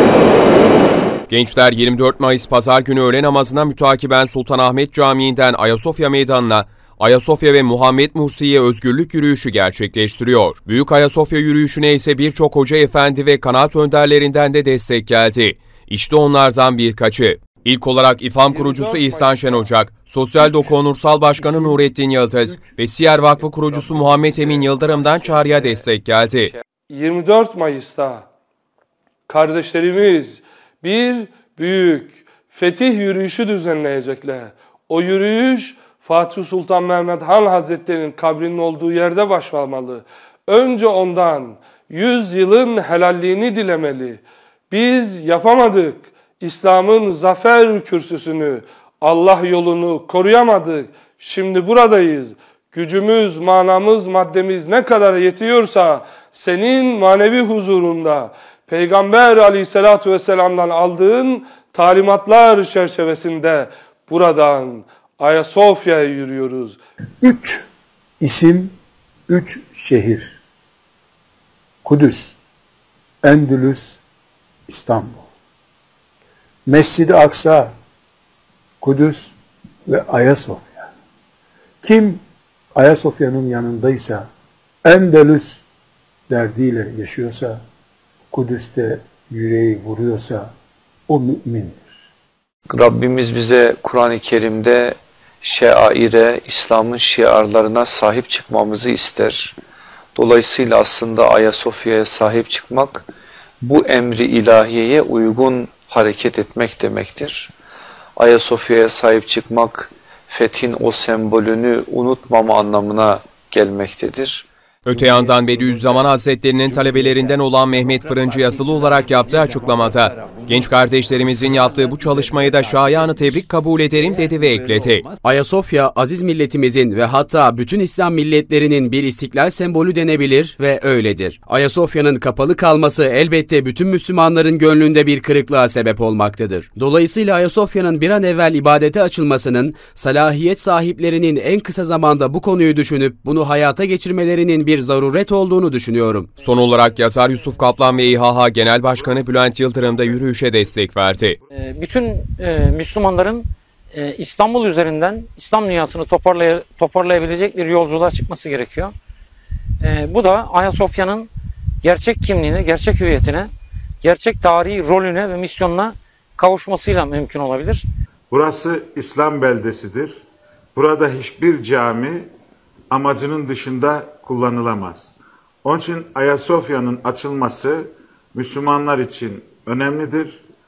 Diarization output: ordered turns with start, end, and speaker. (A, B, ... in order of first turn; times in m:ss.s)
0:01.3-0:26.5 A
0:18.5-0:19.7 B
0:20.4-0:20.8 C
0:21.3-0:23.9 C
0:24.0-0:25.8 D
0:26.9-0:28.3 B
0:29.3-1:06.8 B
1:07.2-1:07.6 C
1:08.2-1:08.7 C
1:09.3-1:10.4 C
1:11.8-1:12.4 C
1:13.2-1:14.0 C
1:14.7-1:15.3 C
1:16.7-1:17.7 C
1:18.8-1:20.9 C
1:21.8-1:22.2 C
1:22.8-1:24.3 C
1:24.8-1:25.6 C
1:26.3-1:27.6 C
1:28.3-1:30.5 C
1:31.1-1:32.0 C
1:32.7-1:39.6 D
1:40.2-1:43.1 D
1:43.6-1:47.5 D
1:48.2-1:54.5 D
1:54.8-2:05.1 A
2:05.2-2:26.3 E
2:26.4-2:31.4 A
2:28.9-2:30.3 F
2:31.5-2:38.9 G
2:39.8-2:41.3 G
2:41.8-2:43.5 G
2:44.0-2:47.9 G
2:48.3-2:50.2 F
2:50.8-2:52.3 F
2:52.9-3:00.4 F